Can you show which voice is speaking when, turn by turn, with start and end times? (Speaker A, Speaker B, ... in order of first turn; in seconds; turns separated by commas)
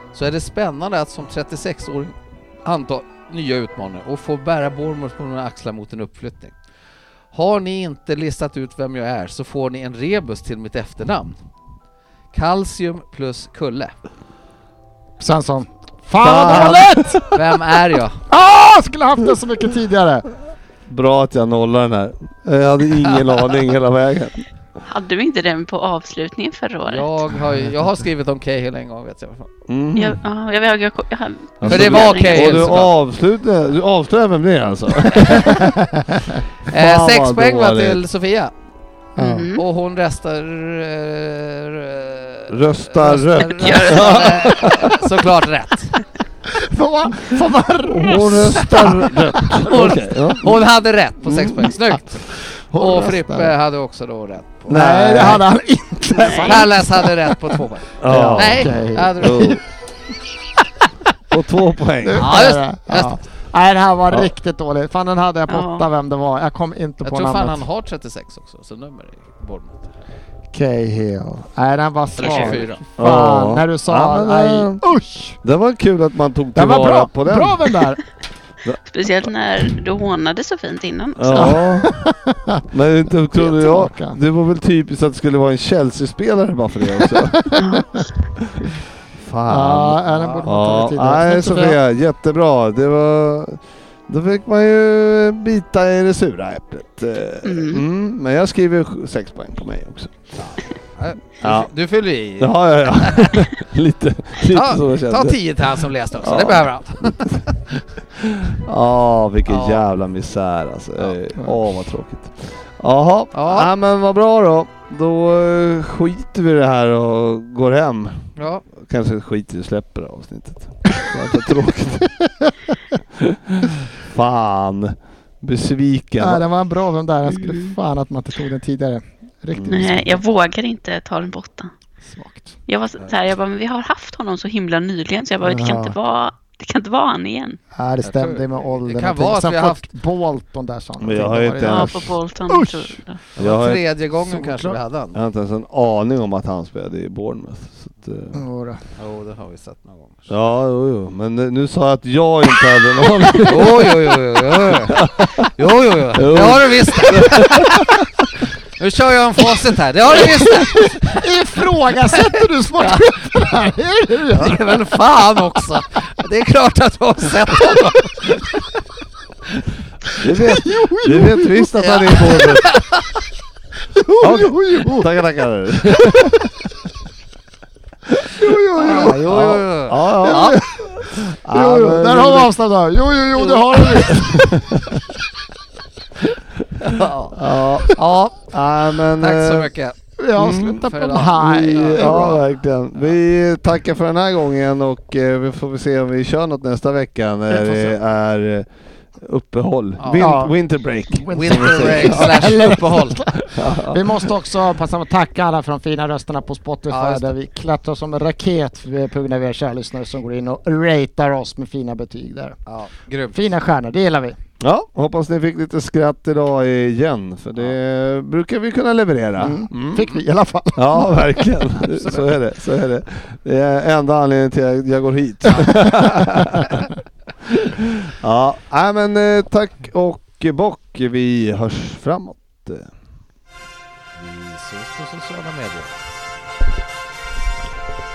Speaker A: 0.1-6.5, Speaker A: 7.3-11.4, Speaker A: 12.3-13.9, Speaker B: 15.2-17.2, Speaker C: 16.2-17.3, Speaker A: 17.3-18.2, Speaker B: 18.3-20.3, Speaker C: 20.9-24.4, Speaker D: 24.9-27.3, Speaker A: 26.8-29.5, Speaker C: 29.7-30.2, Speaker D: 30.0-32.7, Speaker C: 31.6-35.7, Speaker A: 31.7-32.9, Speaker B: 35.6-36.1, Speaker C: 36.7-38.0, Speaker A: 36.7-38.5, Speaker B: 39.2-39.5, Speaker D: 39.2-39.6, Speaker A: 39.5-46.0, Speaker C: 42.5-45.0, Speaker D: 43.6-44.2, Speaker B: 46.5-49.7, Speaker C: 47.9-50.6, Speaker A: 48.2-54.8, Speaker C: 51.2-51.8, Speaker B: 52.6-53.5, Speaker C: 54.7-55.4, Speaker B: 54.7-57.5, Speaker D: 56.2-56.5, Speaker A: 56.3-59.6, Speaker C: 58.0-59.6, Speaker B: 58.0-59.6, Speaker C: 61.3-62.3, Speaker B: 62.0-67.6, Speaker A: 62.2-63.2, Speaker D: 65.5-65.9, Speaker A: 67.0-69.9, Speaker B: 70.5-75.4, Speaker A: 72.2-72.8, Speaker D: 72.3-72.5, Speaker C: 73.0-74.8, Speaker C: 75.4-77.8, Speaker B: 76.5-78.0, Speaker C: 78.6-79.2, Speaker D: 78.8-81.6, Speaker C: 81.2-82.0, Speaker B: 81.3-82.6, Speaker C: 82.7-87.5, Speaker B: 83.3-84.2, Speaker B: 87.2-88.0, Speaker D: 87.6-88.0, Speaker C: 89.2-100.2, Speaker B: 89.5-91.8, Speaker A: 90.1-90.5, Speaker D: 97.4-97.8, Speaker A: 100.4-103.5, Speaker C: 101.4-101.7, Speaker C: 102.4-105.4, Speaker A: 104.4-107.8, Speaker C: 106.1-107.4, Speaker C: 108.2-122.1, Speaker A: 109.5-109.8, Speaker A: 113.3-113.7, Speaker A: 118.4-118.6, Speaker C: 123.2-126.4, Speaker B: 126.2-130.2, Speaker D: 127.3-127.7, Speaker C: 129.5-129.9, Speaker D: 129.7-131.7, Speaker D: 132.7-137.6, Speaker B: 135.4-136.0, Speaker B: 137.8-143.0, Speaker A: 138.0-139.8, Speaker C: 141.0-142.2, Speaker D: 141.6-143.2, Speaker A: 143.4-145.2, Speaker C: 143.4-143.8, Speaker B: 144.2-144.8, Speaker C: 145.1-148.4, Speaker B: 148.3-148.8, Speaker A: 149.0-150.3, Speaker C: 150.3-155.5, Speaker A: 153.5-158.0, Speaker C: 156.2-158.1, Speaker A: 158.8-161.2, Speaker B: 161.1-164.8, Speaker A: 164.3-168.4, Speaker C: 170.2-172.7, Speaker B: 170.3-171.7, Speaker A: 171.7-173.0, Speaker B: 173.9-175.1, Speaker C: 174.2-176.3, Speaker B: 178.4-179.2, Speaker C: 178.4-182.5, Speaker A: 178.8-180.6, Speaker B: 180.2-184.8, Speaker C: 184.1-184.9, Speaker A: 186.8-190.0, Speaker C: 187.3-189.7, Speaker B: 190.2-192.4, Speaker C: 190.4-190.8, Speaker A: 190.5-192.4, Speaker C: 191.4-202.6, Speaker B: 197.5-198.0, Speaker A: 200.0-200.3, Speaker B: 200.2-200.6, Speaker B: 201.1-212.6, Speaker A: 201.3-203.2, Speaker C: 203.5-204.3, Speaker A: 206.9-207.3, Speaker A: 212.7-213.5, Speaker B: 213.3-214.4, Speaker C: 214.6-220.1, Speaker B: 219.4-221.5, Speaker C: 220.8-226.8, Speaker A: 221.7-222.4, Speaker C: 228.1-232.9, Speaker A: 234.1-236.0